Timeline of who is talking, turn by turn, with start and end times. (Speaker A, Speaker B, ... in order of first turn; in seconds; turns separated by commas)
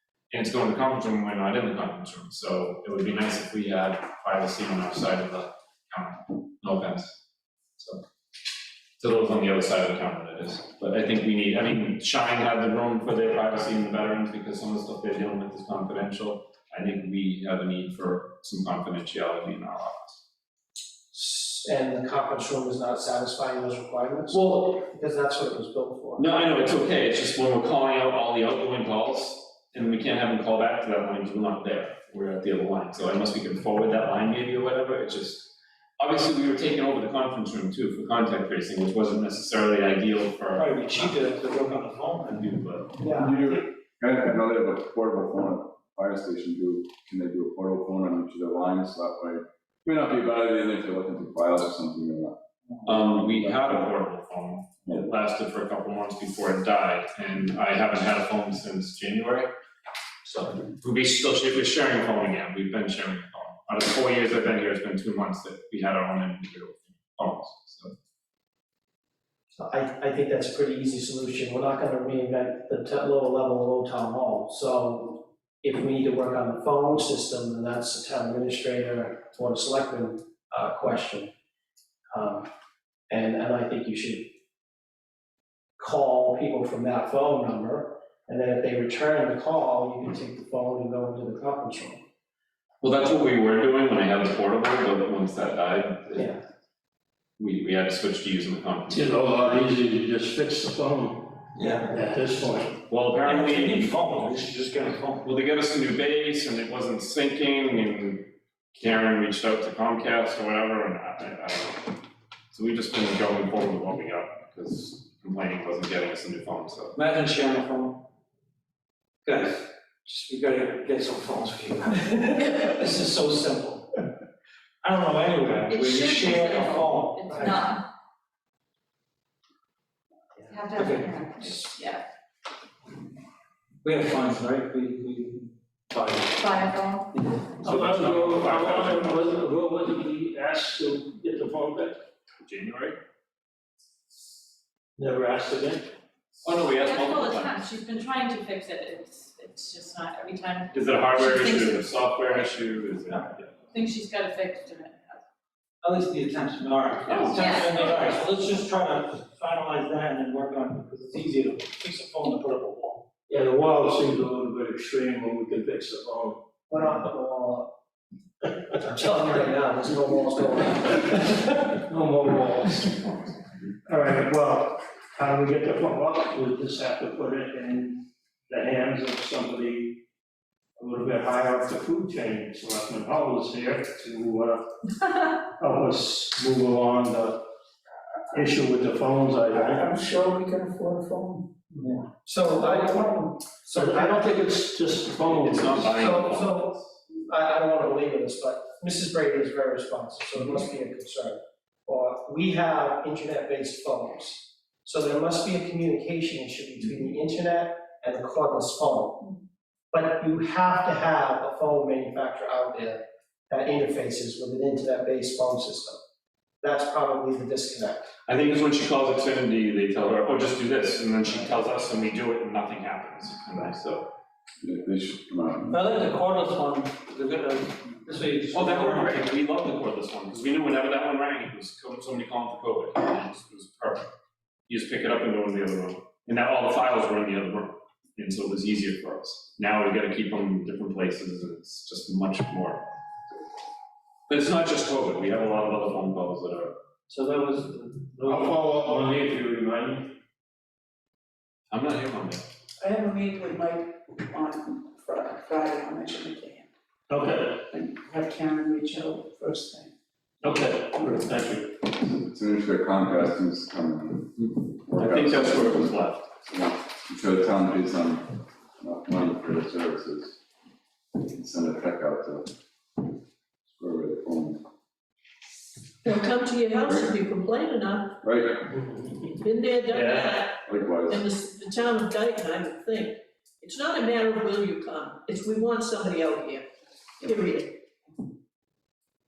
Speaker A: 0.3-7.2, Speaker A: 9.0-20.2, Speaker B: 21.1-26.6, Speaker A: 24.3-24.6, Speaker A: 26.2-41.2, Speaker C: 40.5-42.5, Speaker A: 42.4-42.9, Speaker B: 43.0-43.3, Speaker D: 43.2-52.4, Speaker A: 52.9-59.5, Speaker D: 53.0-53.9, Speaker A: 60.3-67.9, Speaker B: 69.6-81.3, Speaker B: 82.1-82.5, Speaker B: 83.1-84.3, Speaker B: 85.8-92.0, Speaker A: 92.8-96.3, Speaker A: 97.4-99.1, Speaker E: 98.9-102.8, Speaker C: 101.6-101.9, Speaker A: 102.9-104.0, Speaker C: 103.2-105.3, Speaker A: 105.2-111.9, Speaker A: 112.5-117.0, Speaker C: 117.0-118.0, Speaker C: 119.2-124.0, Speaker C: 124.8-127.6, Speaker F: 125.7-127.8, Speaker F: 130.5-132.0, Speaker C: 130.8-131.7, Speaker C: 133.8-136.5, Speaker F: 136.4-137.1, Speaker A: 137.6-139.4, Speaker E: 137.6-142.0, Speaker A: 142.4-143.0, Speaker E: 145.0-145.9, Speaker A: 146.4-147.7, Speaker F: 146.7-152.5, Speaker A: 150.7-153.6, Speaker F: 153.7-155.2, Speaker C: 155.8-163.0, Speaker A: 157.1-157.6, Speaker F: 157.1-158.2, Speaker E: 163.3-166.4, Speaker B: 166.7-167.7, Speaker B: 168.8-171.5, Speaker E: 171.8-172.9, Speaker E: 173.9-180.0, Speaker E: 180.8-184.6, Speaker E: 185.4-187.4, Speaker E: 188.3-189.9, Speaker G: 189.6-191.5, Speaker B: 192.2-194.3, Speaker E: 193.7-196.0, Speaker A: 195.3-196.9, Speaker B: 195.9-209.4, Speaker B: 209.9-213.0, Speaker B: 213.5-216.0, Speaker B: 216.6-218.1, Speaker A: 218.3-224.1, Speaker D: 224.6-225.9, Speaker C: 225.7-229.3, Speaker A: 228.5-234.1, Speaker A: 234.7-242.8, Speaker A: 244.3-246.7, Speaker E: 247.1-250.1, Speaker C: 248.3-248.6, Speaker A: 251.7-252.5, Speaker G: 252.8-256.7, Speaker E: 257.1-257.6, Speaker G: 257.7-259.9, Speaker E: 260.4-261.8, Speaker D: 262.0-265.9, Speaker A: 264.4-266.3, Speaker D: 266.5-270.4, Speaker D: 271.1-272.5, Speaker D: 273.7-274.6, Speaker H: 276.0-278.1, Speaker D: 276.8-277.1, Speaker D: 278.2-278.8, Speaker H: 279.4-280.6, Speaker E: 279.9-280.3, Speaker D: 280.6-281.2, Speaker H: 281.1-286.6, Speaker H: 287.2-287.8